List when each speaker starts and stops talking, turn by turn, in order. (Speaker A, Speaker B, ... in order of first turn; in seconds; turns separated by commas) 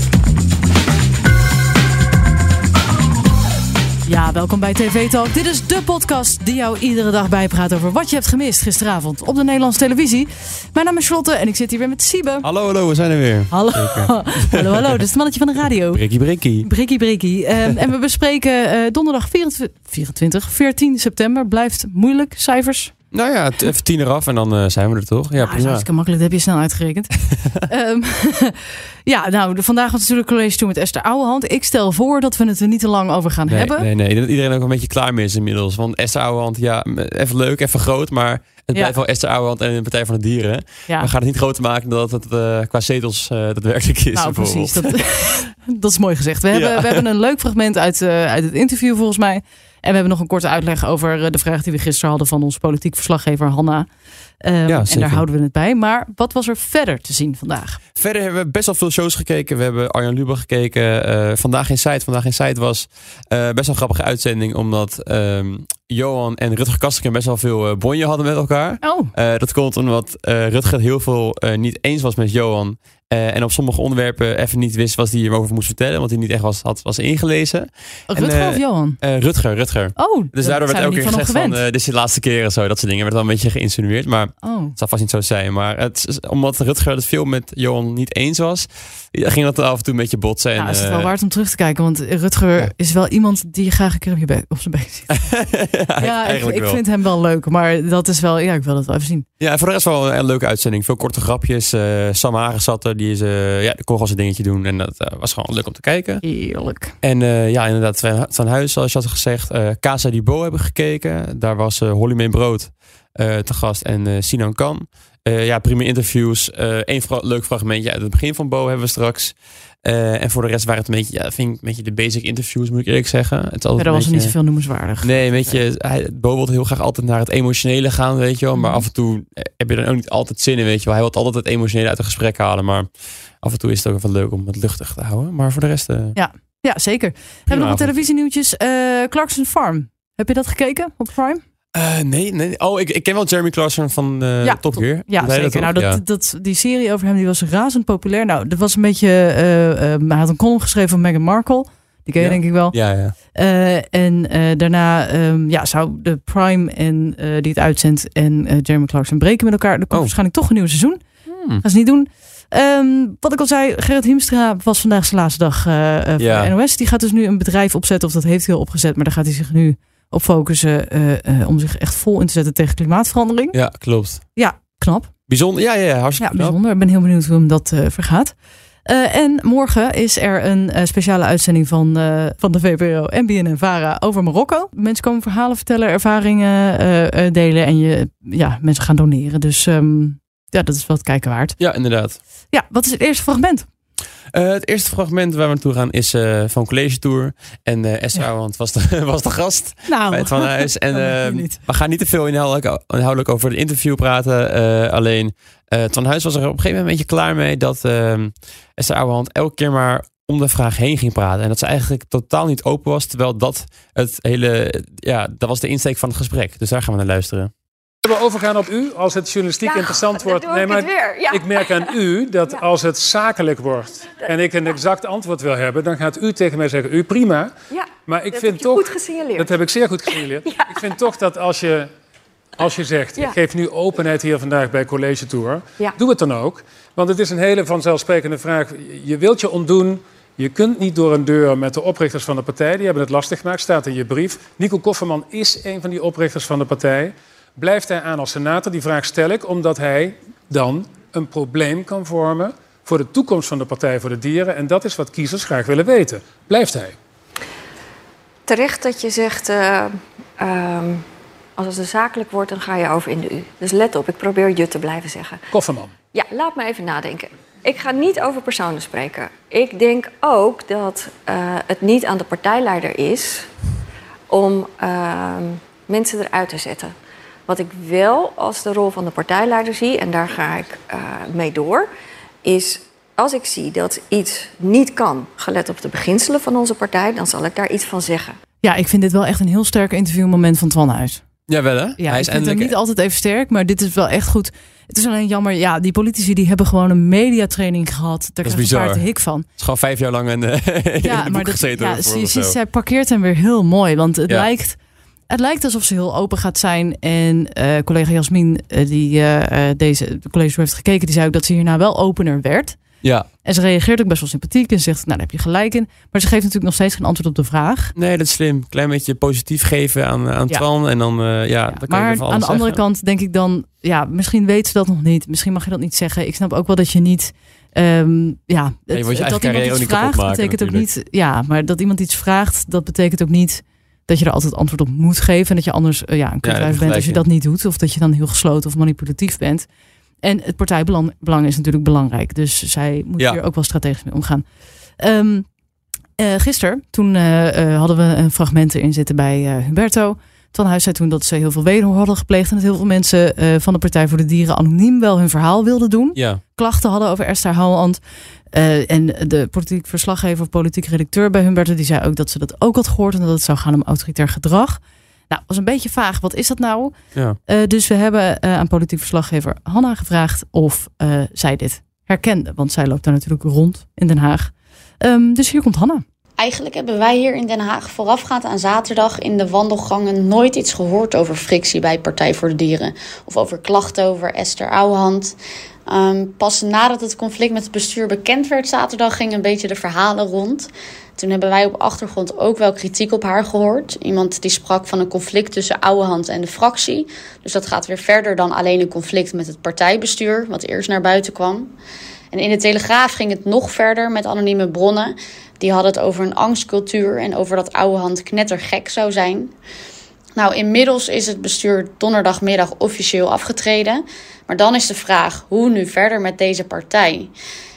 Speaker A: 4.0-12.4, Speaker B: 12.4-15.0, Speaker A: 13.5-16.0, Speaker B: 15.9-16.7, Speaker A: 16.6-22.9, Speaker B: 23.1-25.9, Speaker A: 25.4-33.9, Speaker B: 33.5-45.0, Speaker A: 44.1-53.9, Speaker B: 46.5-47.0, Speaker A: 54.4-57.8, Speaker B: 54.7-55.2, Speaker B: 58.0-91.1, Speaker A: 68.8-69.1, Speaker A: 78.1-79.0, Speaker A: 80.0-81.6, Speaker A: 84.4-84.8, Speaker A: 90.6-95.2, Speaker B: 95.3-96.8, Speaker A: 96.0-99.2, Speaker B: 99.4-106.2, Speaker A: 106.2-106.9, Speaker B: 107.0-124.4, Speaker A: 123.8-125.6, Speaker B: 125.0-136.2, Speaker A: 128.5-128.8, Speaker A: 136.2-141.4, Speaker B: 137.5-138.0, Speaker B: 141.7-146.0, Speaker A: 144.4-161.0, Speaker B: 152.2-153.1, Speaker B: 161.3-161.6, Speaker A: 161.6-173.6, Speaker B: 166.2-166.5, Speaker B: 173.5-174.2, Speaker A: 174.3-175.1, Speaker B: 175.3-176.6, Speaker A: 176.2-178.3, Speaker A: 178.8-191.6, Speaker B: 191.6-192.2, Speaker A: 192.5-193.7, Speaker B: 194.3-217.5, Speaker A: 199.9-201.6, Speaker C: 218.0-227.5, Speaker D: 219.6-222.7, Speaker D: 227.7-231.1, Speaker C: 228.1-231.9, Speaker C: 232.6-256.9, Speaker D: 258.5-261.0, Speaker D: 261.6-265.4, Speaker C: 265.5-265.9, Speaker D: 266.1-273.5, Speaker D: 274.3-276.9, Speaker D: 277.5-281.9, Speaker D: 282.4-288.4, Speaker A: 288.6-291.2, Speaker B: 291.5-292.7, Speaker A: 292.0-299.4, Speaker B: 298.4-302.6, Speaker A: 301.0-312.8, Speaker B: 313.0-313.3, Speaker A: 313.4-317.9, Speaker B: 317.9-322.8, Speaker A: 321.7-339.7, Speaker B: 328.9-330.9, Speaker B: 336.4-337.2, Speaker A: 340.2-344.4, Speaker A: 345.0-345.5, Speaker A: 346.2-376.0, Speaker B: 356.1-356.4, Speaker E: 376.4-385.4, Speaker E: 385.9-401.7, Speaker E: 402.3-409.5, Speaker E: 410.4-417.3